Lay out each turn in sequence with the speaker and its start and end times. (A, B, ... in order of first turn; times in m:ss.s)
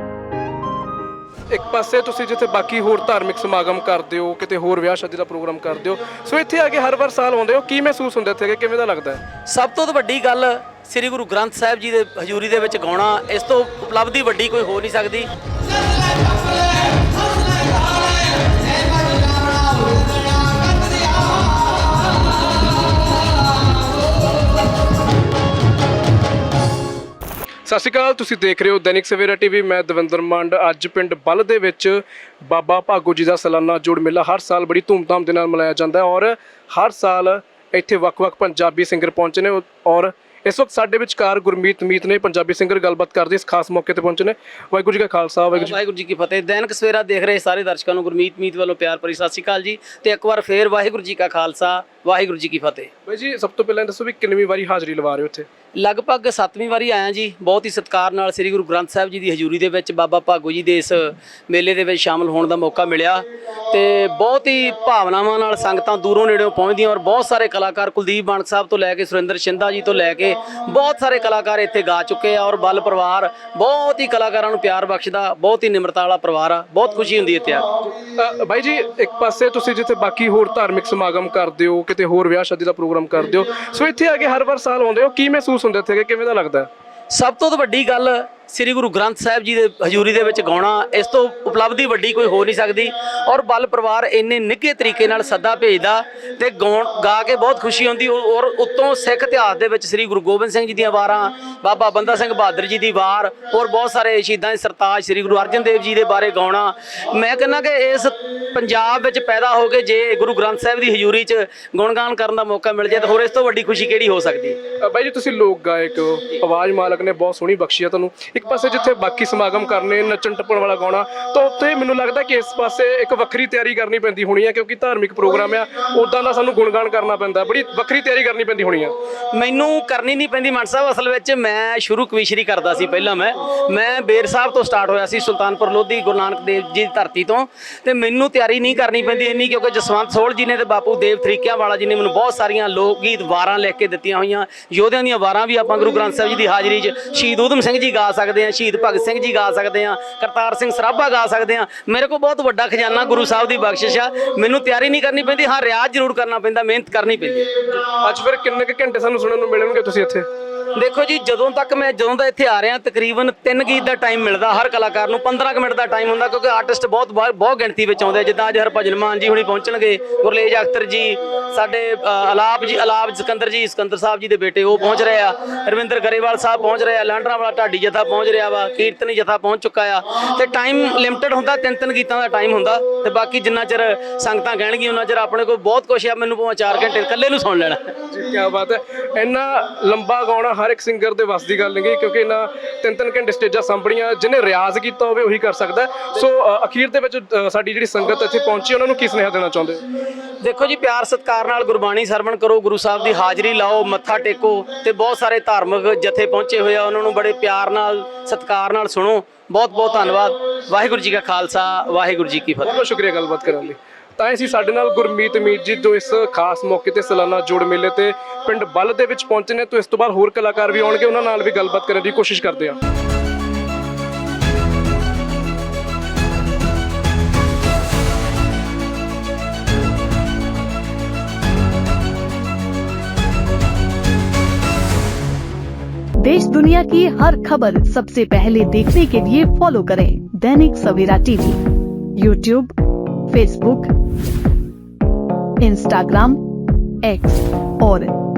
0:01.5-0:09.2 A
0:09.5-0:15.3 B
0:27.7-0:45.8 A
0:45.5-0:52.9 B
0:53.0-0:55.5 A
0:55.8-1:17.8 B
1:18.2-1:26.7 A
1:27.1-1:54.6 B
1:54.8-2:08.9 A
2:09.3-2:37.5 B
2:37.9-2:40.2 A
2:40.7-3:08.0 B
3:08.1-3:19.8 A
3:20.4-3:32.8 B
3:32.6-3:42.8 A
3:56.2-4:01.6 C
4:02.2-4:02.7 C
4:03.3-4:03.9 C
4:05.6-4:06.4 C
4:07.0-4:08.1 C